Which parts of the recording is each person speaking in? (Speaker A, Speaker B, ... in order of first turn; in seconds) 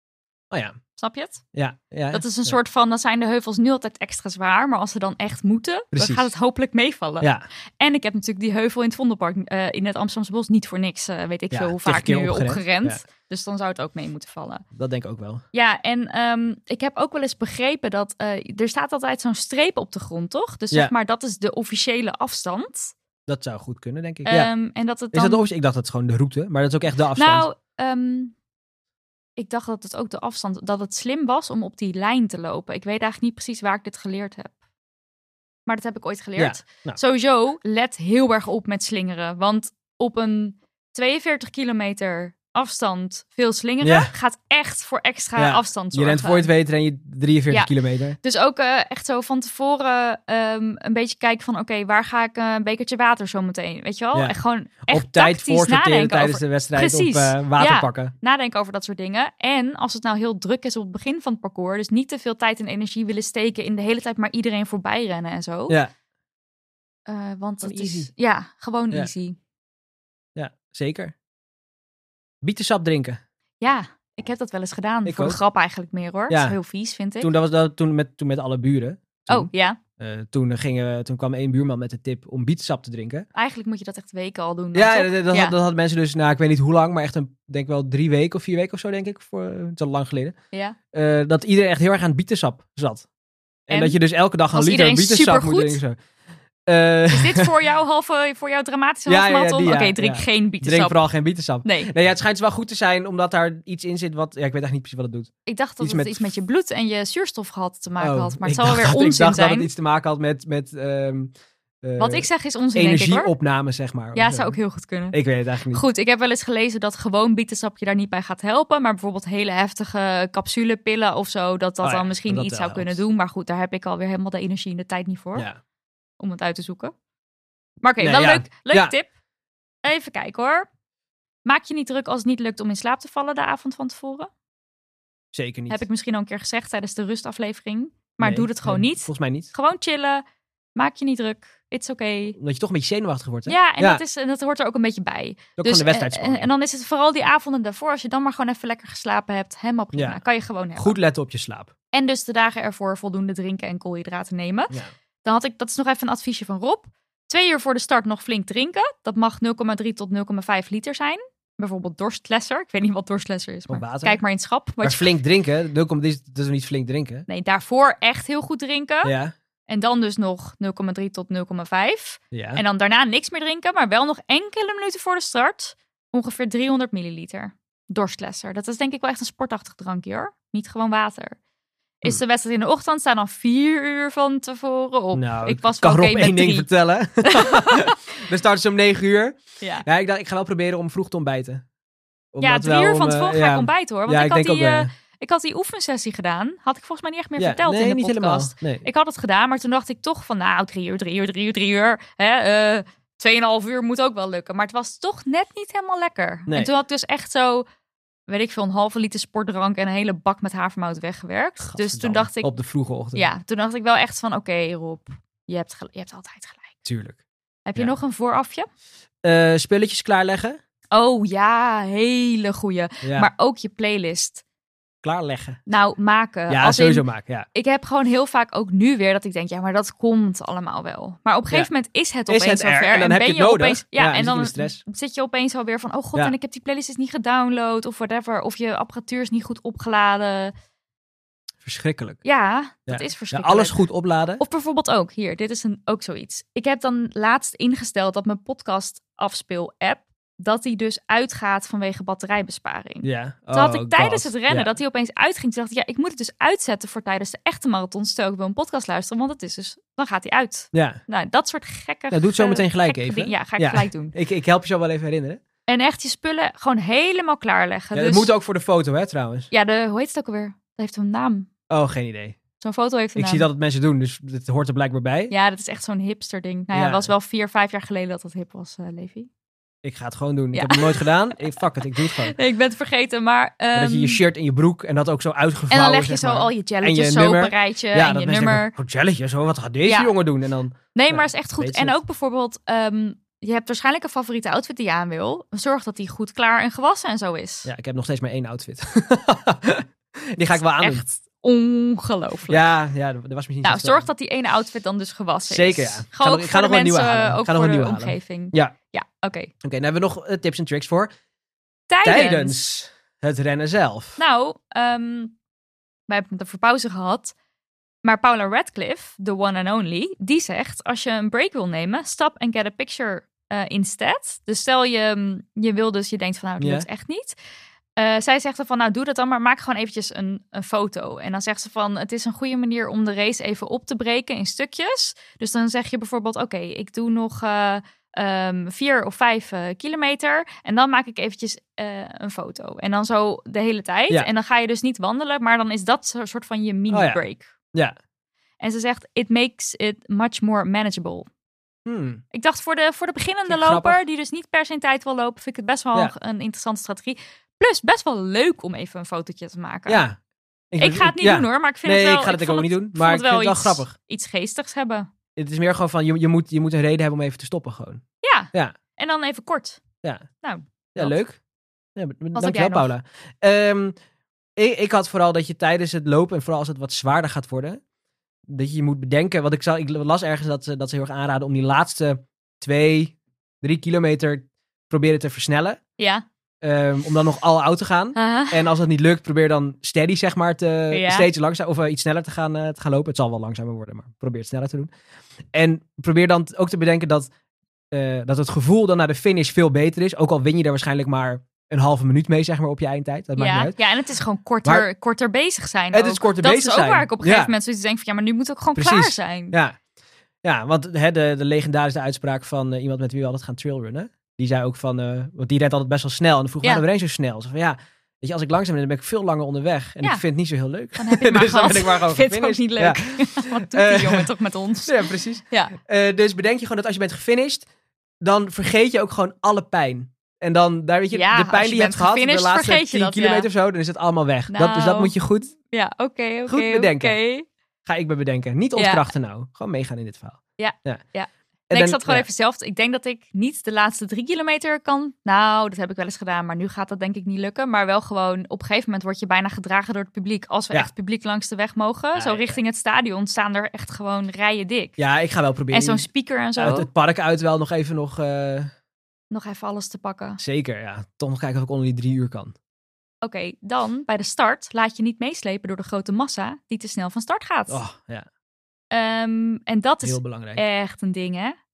Speaker A: 0.5-0.8, 1.5-2.6, 5.9-6.3, 11.5-13.0, 14.7-15.4, 23.3-24.5, 25.1-27.4, 36.4-37.0, 43.8-44.1, 45.4-48.2, 54.1-58.1, 67.6-68.1, 70.3-71.1, 72.4-73.2, 75.0-75.4, 76.3-76.6, 77.2-83.3, 84.7-90.3, 90.9-93.1, 93.7-96.0, 96.7-97.5, 99.1-105.3, 105.8-106.3, 108.0-111.3, 111.8-114.6, 115.1-115.8, 121.8-123.0, 128.0-128.9, 135.3-135.8, 138.2-139.5, 142.3-144.0, 145.6-146.5, 149.9-150.2, 150.8-151.7, 163.7-164.2, 164.8-167.2, 169.0-169.3, 172.3-172.6, 185.1-191.6, 192.3-194.9, 197.4-198.8, 211.6-213.3, 216.8-217.2, 219.2-220.6, 223.0-223.3, 225.0-225.6, 226.5-227.4, 232.3-234.8, 241.6-242.2, 242.9-244.4, 253.0-254.7, 260.7-261.0, 262.1-265.4, 267.9-269.5, 271.7-272.4, 273.1-275.3, 276.7-277.1, 279.8-282.4, 283.7-292.0, 297.6-301.0, 302.5-304.1, 305.5-308.7, 309.6-311.1, 312.0-314.2, 326.6-326.9, 346.9-347.2, 351.9-352.2, 353.5-354.0, 359.9-360.2, 360.7-363.9, 365.4-368.7, 370.9-371.4, 371.9-373.9, 374.6-377.8, 378.5-385.8, 386.6-394.9, 395.5-397.3, 397.9-403.8, 405.9-407.5, 408.8-409.8, 410.4-424.3, 424.9-427.6, 428.2-435.5, 436.5-437.2, 437.9-441.0, 441.7-442.2, 452.1-452.6, 455.0-456.1, 456.6-458.7, 460.4-462.5, 467.7-468.2, 470.0-470.6
Speaker B: 1.0-1.4, 2.1-14.6, 15.5-22.9, 24.2-25.5, 27.1-28.3, 29.4-34.5, 35.7-46.5, 48.2-65.8, 67.1-69.4, 73.6-77.3, 79.3-79.8, 83.3-85.5, 90.5-90.8, 93.7-94.0, 94.5-95.8, 97.1-101.0, 101.6-101.9, 105.5-109.7, 112.0-113.3, 114.1-115.2, 115.7-125.5, 126.2-126.9, 127.8-129.1, 129.8-130.7, 131.4-134.3, 135.7-140.2, 140.8-142.4, 143.4-150.9, 151.9-165.2, 167.3-169.1, 169.7-181.4, 182.0-186.7, 187.2-188.0, 189.6-189.8, 192.4-207.6, 208.3-212.5, 213.1-216.8, 217.7-218.7, 220.9-224.4, 225.7-240.5, 242.2-243.8, 244.4-264.1, 265.7-268.3, 269.5-271.5, 272.6-273.5, 275.3-279.3, 280.5-284.2, 285.7-288.7, 289.8-290.1, 290.9-297.7, 300.7-302.6, 303.6-309.5, 311.9-312.6, 314.2-315.3, 316.1-317.3, 318.0-327.4, 328.0-347.5, 348.6-351.3, 352.3-360.0, 360.8-365.1, 368.2-369.8, 370.4-371.2, 372.3-372.9, 386.0-386.2, 388.1-388.7, 390.9-391.3, 403.4-409.6, 421.0-425.7, 431.1-433.5, 434.5-437.4, 438.8-439.1, 440.6-455.0, 455.7-456.9, 459.3-460.4, 463.2-467.8, 468.9-471.6